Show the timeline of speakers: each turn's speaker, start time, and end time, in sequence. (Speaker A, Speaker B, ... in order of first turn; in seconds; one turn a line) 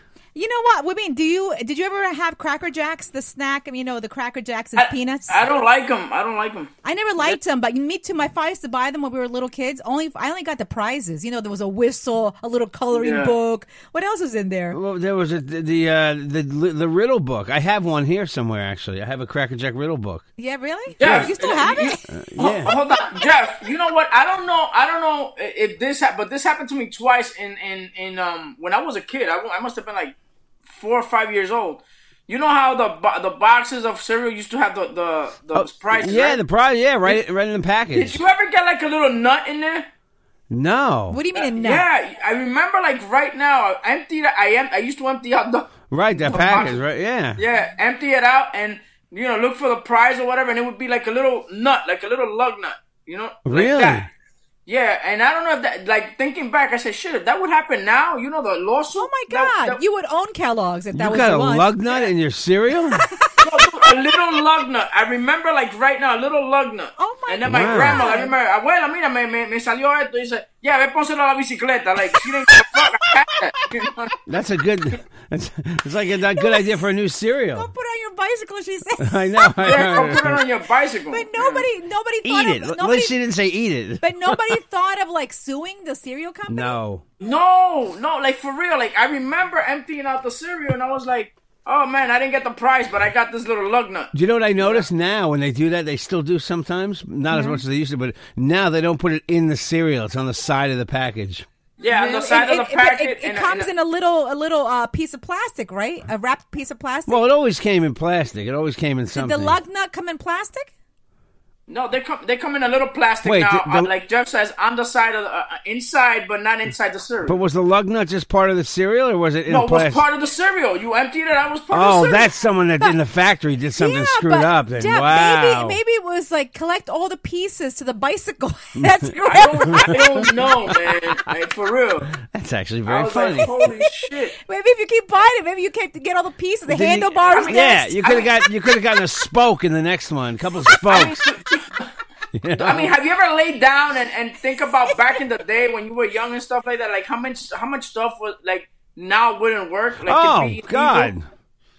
Speaker A: 0.3-5.4
Speaker B: 4.8-7.4
Speaker A: 6.8-14.8
Speaker B: 12.9-13.3
Speaker C: 14.7-20.2
Speaker A: 20.4-23.1
Speaker C: 21.0-21.3
Speaker B: 21.0-30.1
Speaker C: 22.1-22.7
Speaker B: 30.7-36.4
Speaker C: 35.5-38.2
Speaker B: 37.9-39.9
Speaker C: 40.5-41.2
Speaker A: 41.1-41.9
Speaker B: 41.3-46.8
Speaker C: 45.9-47.4
Speaker B: 47.4-54.1
Speaker C: 53.5-54.1
Speaker B: 54.6-59.8
Speaker A: 58.9-61.7
Speaker C: 60.9-63.0
Speaker A: 62.9-63.4
Speaker B: 63.4-74.1
Speaker A: 67.0-68.3
Speaker C: 67.5-68.1
Speaker A: 72.5-72.8
Speaker C: 74.3-77.7
Speaker A: 76.3-76.8
Speaker A: 77.5-80.1
Speaker C: 79.0-80.4
Speaker B: 79.6-81.7
Speaker A: 81.1-83.1
Speaker C: 82.2-84.6
Speaker A: 84.0-86.8
Speaker C: 86.5-87.0
Speaker B: 87.2-94.8
Speaker C: 94.1-101.5
Speaker A: 97.3-97.6
Speaker B: 101.8-103.7
Speaker A: 101.9-107.2
Speaker C: 107.1-109.6
Speaker A: 109.1-110.7
Speaker B: 111.7-117.3
Speaker C: 113.2-113.9
Speaker C: 117.2-120.0
Speaker B: 119.5-122.3
Speaker C: 121.7-125.8
Speaker A: 123.8-130.3
Speaker C: 128.8-129.1
Speaker B: 129.2-132.1
Speaker C: 129.6-130.9
Speaker C: 132.1-133.5
Speaker B: 132.8-134.3
Speaker A: 133.4-133.9
Speaker A: 134.4-138.0
Speaker C: 136.7-141.2
Speaker B: 137.3-138.3
Speaker B: 140.9-141.9
Speaker C: 142.3-142.9
Speaker B: 142.6-151.1
Speaker C: 150.0-151.3